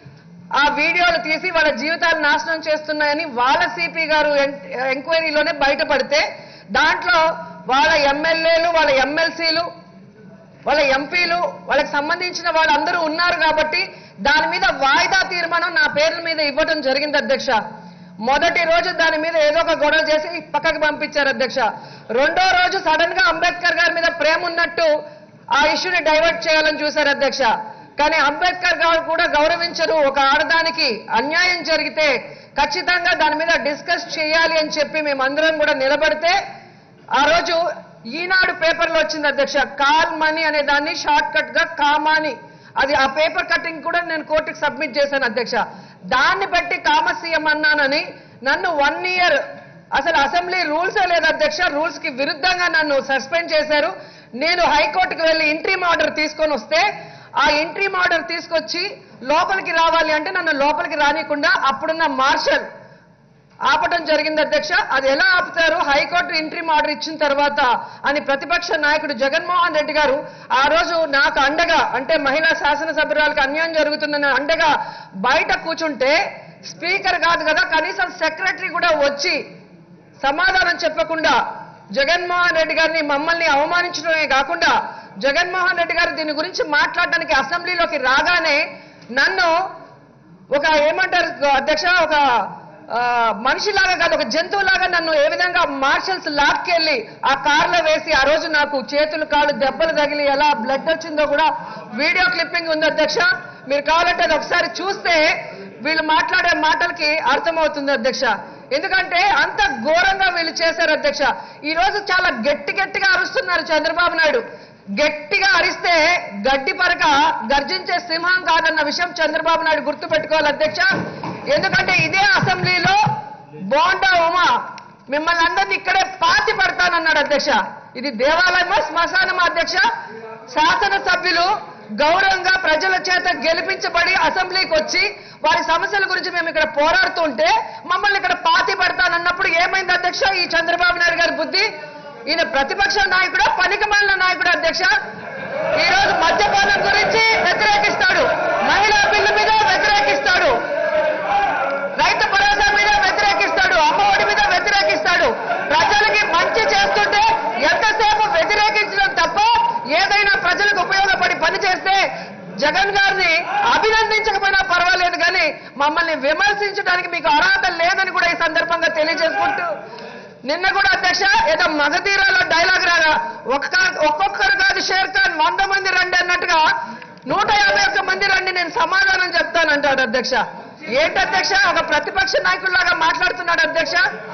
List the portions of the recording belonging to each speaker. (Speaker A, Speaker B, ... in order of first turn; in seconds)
Speaker A: 0.6-9.7, 10.7-17.6, 18.2-24.9, 25.6-36.4, 37.2-37.6, 38.1-45.6, 46.1-49.4, 49.9-56.9, 57.4-62.7, 63.7-74.7, 75.2-79.4, 80.2-81.4, 82.0-88.7, 89.2-89.5, 90.5-92.2, 92.9-114.4, 115.0-120.9, 121.5-123.0, 123.6-124.5, 125.1-129.8, 130.5-141.7, 142.3-144.9, 145.8-150.6, 152.0-162.0, 162.6-169.7, 170.5-176.7, 177.3-180.4, 180.9-184.1